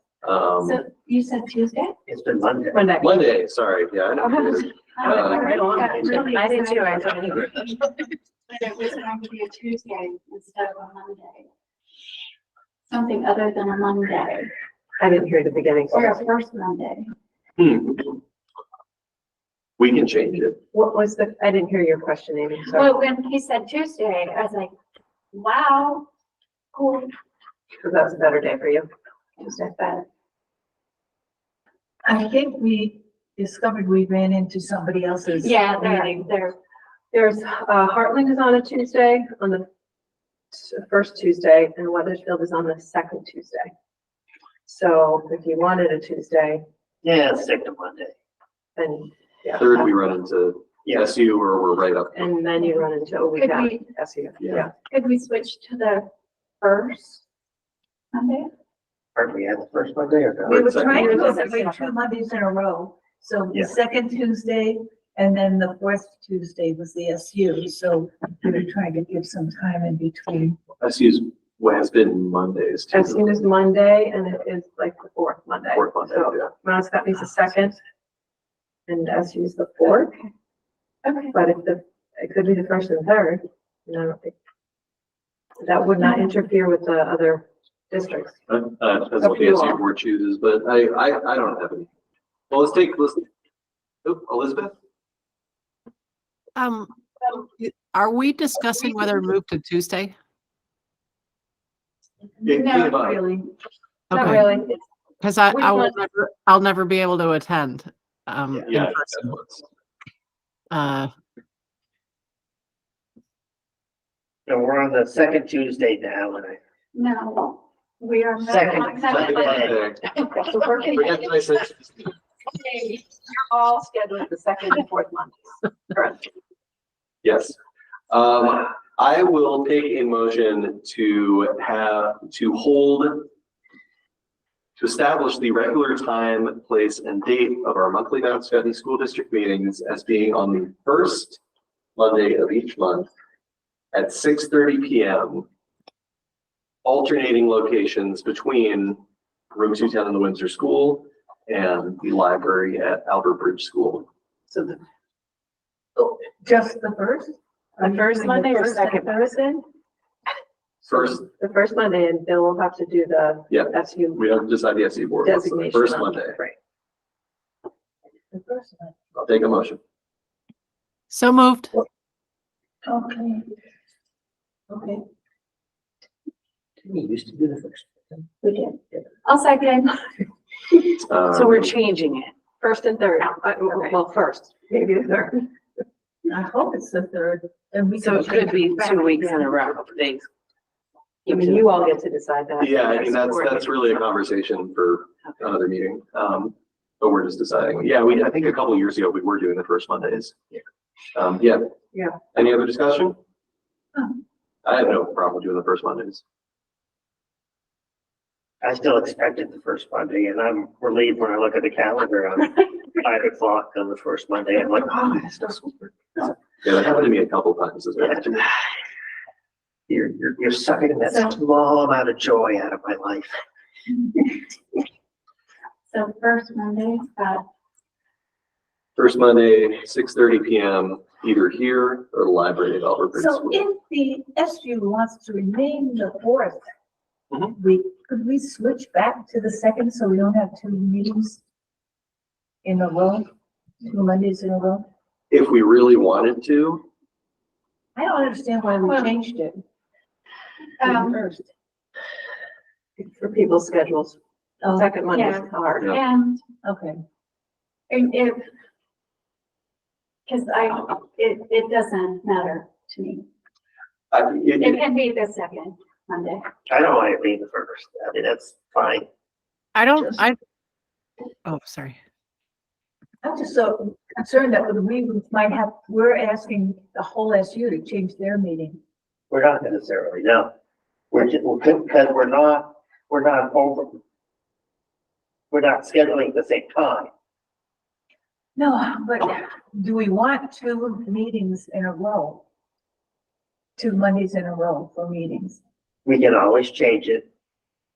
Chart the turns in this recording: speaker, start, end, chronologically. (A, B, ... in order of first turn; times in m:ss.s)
0:00.2-0:00.8 A
0:00.6-0:02.0 B
0:02.1-0:02.9 C
0:02.7-0:03.3 D
0:03.0-0:06.1 A
0:04.2-0:06.5 D
0:05.0-0:07.8 B
0:06.1-0:07.5 E
0:07.0-0:07.3 D
0:08.5-0:11.5 B
0:12.9-0:14.5 B
0:15.0-0:16.2 D
0:15.9-0:17.1 B
0:17.6-0:18.2 A
0:19.8-0:20.6 A
0:20.7-0:22.9 D
0:22.7-0:24.7 B
0:25.3-0:26.1 B
0:26.7-0:27.1 B
0:27.8-0:28.9 D
0:29.4-0:29.8 D
0:29.4-0:30.0 B
0:32.0-0:36.3 F
0:35.4-0:36.6 B
0:37.1-0:39.7 D
0:40.5-0:43.7 D
0:44.7-0:46.6 D
0:47.0-0:48.1 C
0:48.8-0:49.9 D
0:49.6-0:52.4 A
0:52.1-0:54.7 D
0:53.4-0:53.9 B
0:54.4-0:54.7 A
0:54.8-0:56.1 B
0:56.6-0:57.2 B
0:58.1-0:58.5 B
0:59.2-1:00.7 C
1:00.5-1:01.1 A
1:00.5-1:10.6 F
1:00.9-1:01.9 D
1:10.8-1:13.4 A
1:12.9-1:17.8 D
1:15.7-1:16.5 A
1:18.9-1:20.1 D
1:21.0-1:21.3 B
1:21.3-1:24.3 D
1:25.6-1:28.4 D
1:28.5-1:31.9 A
1:29.2-1:29.8 D
1:32.5-1:33.3 A
1:34.0-1:34.7 A
1:36.6-1:40.2 G
1:42.4-1:43.5 F
1:42.4-1:43.3 A
1:44.1-1:44.5 G
1:44.1-1:44.8 D
1:45.2-1:49.4 G
1:45.5-1:45.9 D
1:48.6-1:49.6 A
1:50.7-1:51.1 G
1:54.5-1:56.6 C
1:56.9-1:59.7 B
1:58.8-2:00.1 A
1:59.2-1:59.7 C
2:00.4-2:00.9 D
2:00.8-2:02.1 A
2:02.5-2:06.3 D
2:07.2-2:07.6 A
2:08.1-2:13.3 A
2:14.8-2:21.4 A
2:22.0-2:23.1 A
2:23.9-2:25.5 A
2:26.8-2:29.0 A
2:29.5-2:34.1 A
2:36.0-2:39.1 F
2:37.8-2:39.6 D
2:38.0-2:39.2 E
2:40.9-2:41.2 A
2:41.2-2:44.2 D
2:43.5-2:46.4 A
2:45.2-2:46.5 D
2:48.3-2:48.9 F
2:49.2-2:49.8 A
2:51.1-2:51.7 G
2:52.8-2:53.4 F
2:54.7-2:55.0 F
2:56.9-2:57.8 C
2:58.4-3:00.1 B
3:01.1-3:01.8 A
3:01.3-3:02.3 E
3:02.6-3:05.4 D
3:06.3-3:09.8 F
3:08.0-3:10.3 E
3:11.2-3:11.8 E
3:11.3-3:13.8 D
3:12.6-3:20.6 A
3:21.2-3:21.7 A
3:21.9-3:22.2 D
3:22.3-3:23.2 A
3:24.6-3:26.2 A
3:28.6-3:36.3 C
3:36.6-3:38.5 A
3:38.0-3:38.4 C
3:39.9-3:43.4 C
3:45.9-3:47.4 B
3:49.0-3:53.6 A
3:53.2-3:56.6 F
3:57.5-4:01.4 F
4:02.6-4:03.3 F
4:03.8-4:04.9 F
4:05.3-4:06.9 A
4:08.0-4:09.6 F
4:08.8-4:09.1 B
4:10.8-4:11.2 B
4:10.8-4:11.5 F
4:13.0-4:15.9 D
4:14.6-4:14.9 F
4:15.1-4:16.4 B
4:15.8-4:16.0 A
4:16.6-4:17.0 F
4:17.9-4:18.5 B
4:20.3-4:23.3 B
4:24.1-4:24.8 A
4:24.5-4:26.5 B
4:26.7-4:29.1 C
4:29.8-4:30.4 G
4:31.5-4:32.0 G
4:33.2-4:38.8 F
4:39.3-4:40.5 C
4:41.1-4:44.0 C
4:45.5-4:47.1 C
4:48.6-4:52.4 F
4:53.8-4:55.6 F
4:56.1-4:57.2 C